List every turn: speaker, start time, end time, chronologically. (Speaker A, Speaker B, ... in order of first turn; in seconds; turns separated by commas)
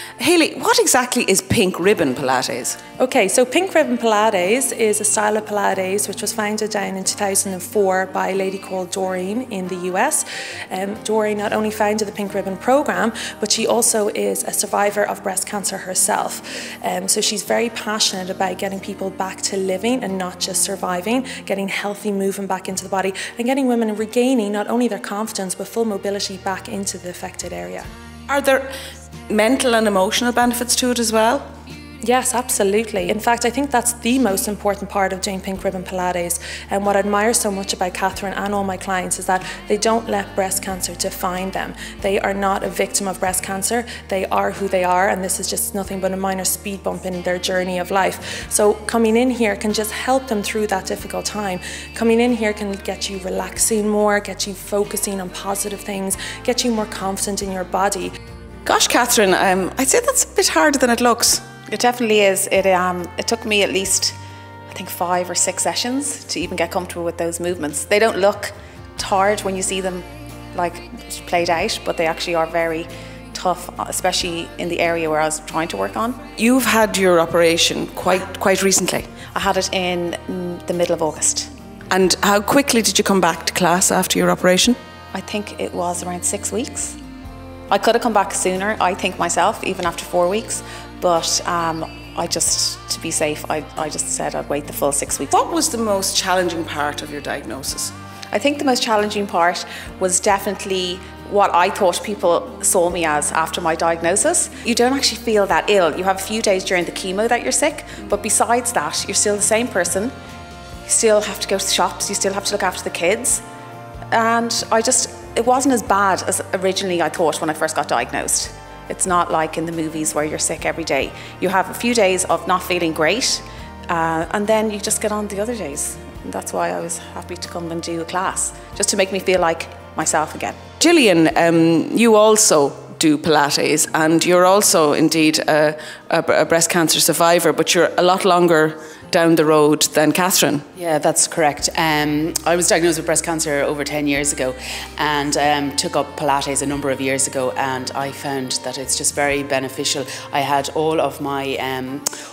Speaker A: 0.2-2.8, Speaker B: 3.0-27.9, Speaker A: 28.3-28.7, Speaker A: 29.3-31.5, Speaker B: 32.0-58.1, Speaker A: 58.7-61.4, Speaker C: 61.7-64.2, Speaker C: 64.7-76.2, Speaker A: 76.3-79.2, Speaker C: 79.2-81.5, Speaker A: 81.9-84.8, Speaker C: 85.1-87.0, Speaker C: 87.7-95.3, Speaker A: 95.3-97.9, Speaker C: 98.3-110.1, Speaker C: 110.9-113.4, Speaker C: 114.1-130.6, Speaker A: 130.8-140.7, Speaker D: 140.8-152.1